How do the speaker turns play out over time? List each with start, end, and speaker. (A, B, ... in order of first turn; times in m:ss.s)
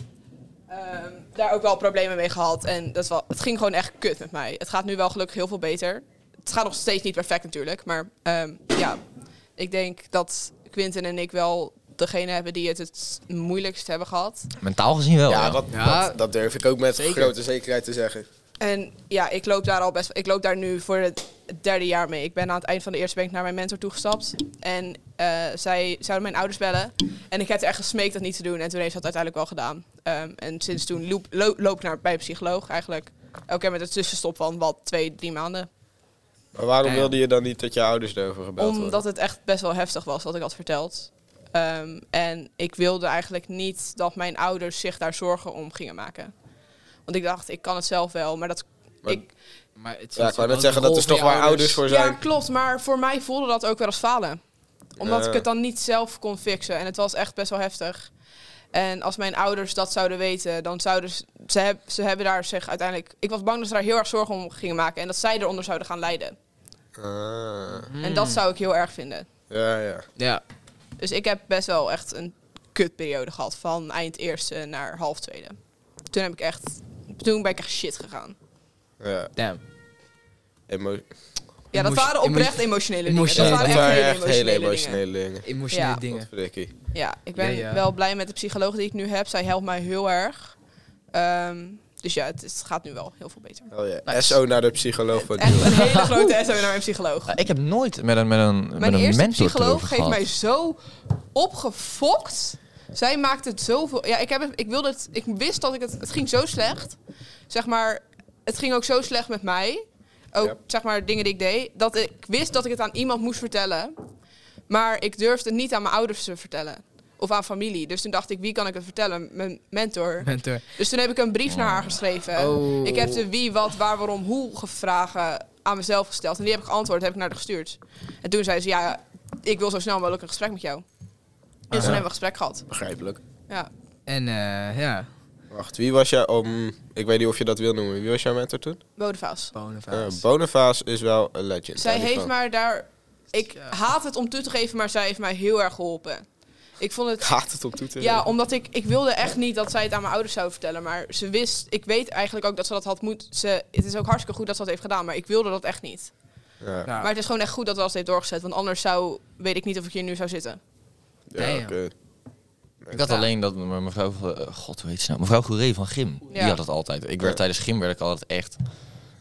0:00.7-0:09.0 A
0:09.6-0:14.5 A
0:14.6-0:15.6 B
0:15.3-0:18.3 C
0:15.7-0:16.2 D
0:16.9-0:17.3 D
0:18.6-0:35.7 A
0:36.6-0:39.0 C
0:36.8-0:37.2 D
0:38.6-0:46.3 A
0:47.1-0:49.3 A
0:49.8-0:51.8 D
0:50.2-0:52.2 C
0:51.9-0:54.4 A
0:55.0-0:58.1 A
0:55.0-0:55.4 C
0:58.7-1:06.4 A
1:07.0-1:07.9 C
1:07.8-1:08.4 D
1:08.0-1:09.3 A
1:09.5-1:10.0 C
1:11.0-1:15.6 A
1:16.1-1:18.4 A
1:19.0-1:19.3 C
1:19.4-1:19.6 D
1:20.7-1:21.0 C
1:21.7-1:24.0 D
1:21.7-1:25.0 A
1:23.4-1:25.5 C
1:25.4-1:26.3 D
1:25.7-1:26.0 A
1:26.1-1:26.7 C
1:26.9-1:30.5 A
1:27.4-1:27.8 D
1:31.1-1:33.7 A
1:33.7-1:35.8 C
1:34.1-1:34.4 D
1:35.2-1:37.4 A
1:35.6-1:36.1 D
1:37.3-1:40.2 B
1:38.8-1:40.8 A
1:41.3-1:47.0 A
1:47.5-1:53.9 A
1:54.7-2:10.8 A
2:00.2-2:00.6 D
2:01.5-2:02.0 B
2:02.4-2:03.2 D
2:11.7-2:12.7 A
2:11.7-2:12.0 D
2:11.8-2:12.0 C
2:12.7-2:13.2 C
2:14.1-2:15.1 D
2:15.5-2:18.8 C
2:19.0-2:19.5 A
2:19.5-2:20.2 D
2:19.9-2:22.3 C
2:21.8-2:26.2 A
2:26.8-2:27.4 A
2:27.2-2:28.3 C
2:28.0-2:36.1 A
2:36.6-2:36.9 C
2:37.0-2:40.6 A
2:41.3-2:41.9 C
2:41.4-2:41.8 D
2:42.9-2:48.6 B
2:46.3-2:46.6 A